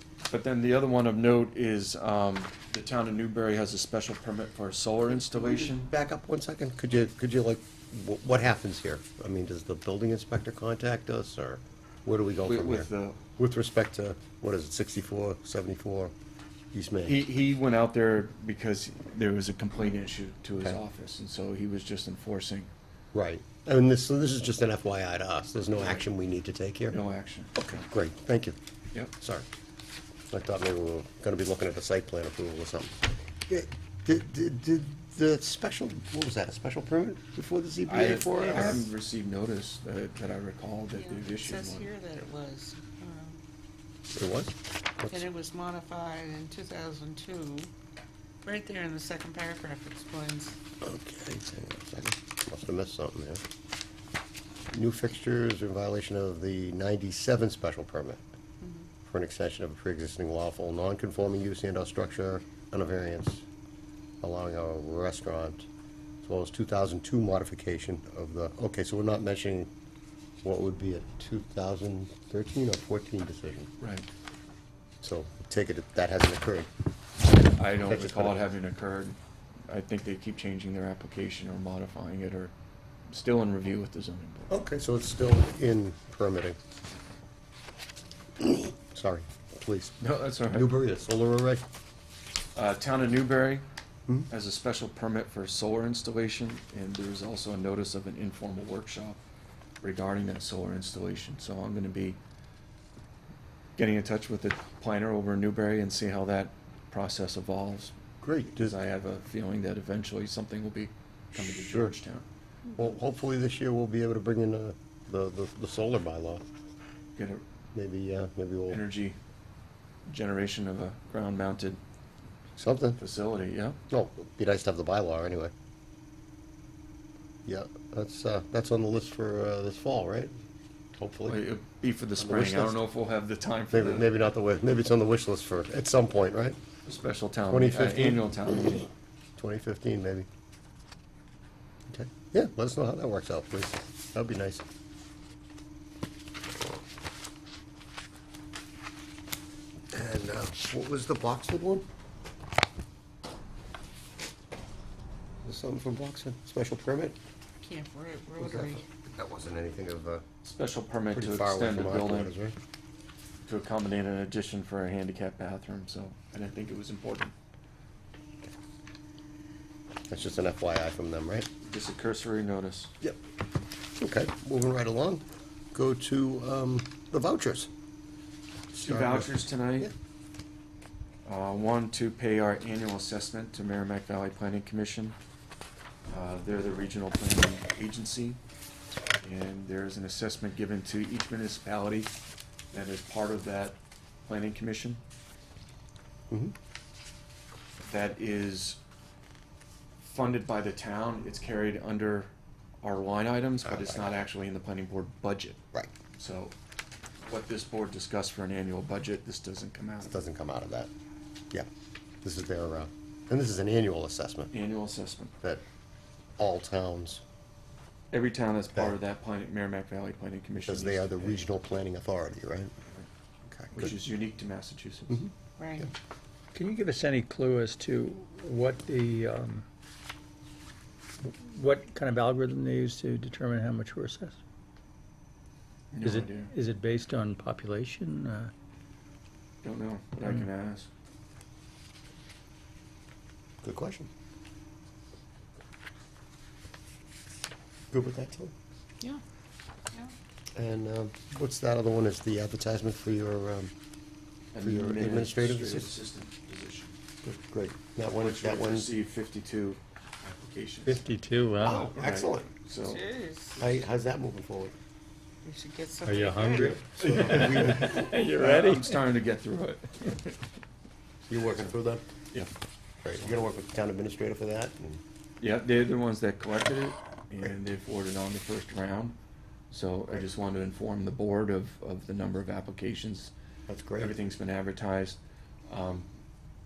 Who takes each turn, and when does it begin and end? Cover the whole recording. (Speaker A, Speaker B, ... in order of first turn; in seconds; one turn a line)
Speaker A: 0.3-5.9
Speaker B: 5.1-16.1
Speaker A: 12.4-13.2
Speaker B: 16.7-17.2
Speaker A: 17.0-22.7
Speaker B: 23.1-27.0
Speaker A: 26.9-27.7
Speaker B: 27.5-28.6
Speaker B: 29.1-29.5
Speaker B: 30.3-38.9
Speaker A: 37.8-41.9
Speaker C: 38.4-38.7
Speaker C: 40.9-43.4
Speaker B: 44.1-45.2
Speaker C: 45.1-47.7
Speaker C: 48.4-50.6
Speaker B: 50.8-53.4
Speaker B: 54.7-58.2
Speaker C: 58.6-58.9
Speaker B: 59.0-63.4
Speaker B: 64.2-65.7
Speaker B: 66.2-69.7
Speaker B: 70.4-73.7
Speaker A: 73.8-74.1
Speaker B: 75.0-76.7
Speaker A: 77.4-79.2
Speaker B: 77.8-78.4
Speaker A: 79.7-82.5
Speaker A: 83.1-84.5
Speaker B: 84.5-86.6
Speaker B: 88.4-90.0
Speaker A: 90.0-90.8
Speaker B: 90.5-91.6
Speaker A: 92.5-93.6
Speaker A: 94.3-99.2
Speaker A: 99.8-102.2
Speaker A: 103.8-107.9
Speaker B: 108.2-108.8
Speaker A: 108.5-112.2
Speaker B: 111.3-112.0
Speaker B: 112.7-116.4
Speaker A: 117.2-117.4
Speaker B: 117.7-118.8
Speaker A: 118.7-119.2
Speaker A: 120.0-121.8
Speaker B: 122.6-123.0
Speaker A: 123.0-123.8
Speaker B: 123.9-125.5
Speaker B: 127.5-130.3
Speaker B: 130.9-131.4
Speaker A: 131.3-134.2
Speaker B: 132.2-132.8
Speaker B: 133.7-136.6
Speaker A: 136.8-138.9
Speaker B: 137.5-138.8
Speaker B: 139.4-140.3
Speaker B: 141.9-144.6
Speaker B: 149.9-151.8
Speaker B: 155.4-157.2
Speaker C: 157.6-158.8
Speaker B: 158.4-160.2
Speaker A: 160.4-162.3
Speaker B: 161.1-162.6
Speaker A: 163.4-167.3
Speaker B: 170.1-171.5
Speaker A: 171.6-172.9
Speaker B: 174.0-177.7
Speaker B: 178.7-179.9
Speaker A: 178.7-179.9
Speaker A: 181.2-185.2
Speaker A: 186.1-188.4
Speaker A: 189.2-192.1
Speaker A: 192.7-195.0
Speaker A: 197.8-198.8
Speaker A: 200.0-205.6
Speaker B: 203.6-204.1
Speaker A: 206.2-206.5
Speaker A: 207.2-210.2
Speaker B: 210.0-210.9
Speaker B: 212.2-214.5
Speaker A: 214.5-215.3
Speaker B: 216.4-217.2
Speaker A: 218.1-221.4
Speaker B: 220.6-222.7
Speaker B: 223.5-224.0
Speaker A: 223.7-225.3
Speaker B: 225.1-225.9
Speaker C: 225.6-225.9
Speaker D: 226.5-229.6
Speaker D: 231.2-234.4
Speaker A: 235.9-236.5
Speaker D: 236.0-238.5
Speaker A: 239.6-240.9
Speaker B: 243.6-244.1
Speaker B: 247.9-248.5
Speaker B: 250.6-253.7
Speaker A: 254.5-257.0
Speaker B: 254.6-255.9
Speaker B: 257.2-258.9
Speaker A: 258.1-261.1
Speaker D: 260.9-261.9
Speaker B: 261.6-262.5
Speaker A: 261.7-263.0
Speaker C: 262.8-263.7
Speaker B: 263.6-264.7
Speaker C: 265.4-266.8
Speaker D: 266.0-268.9
Speaker B: 266.5-268.0
Speaker A: 267.0-270.4
Speaker B: 271.3-272.1
Speaker B: 273.0-275.0
Speaker A: 275.4-279.1
Speaker A: 279.7-283.3
Speaker B: 283.7-284.1
Speaker A: 284.0-286.1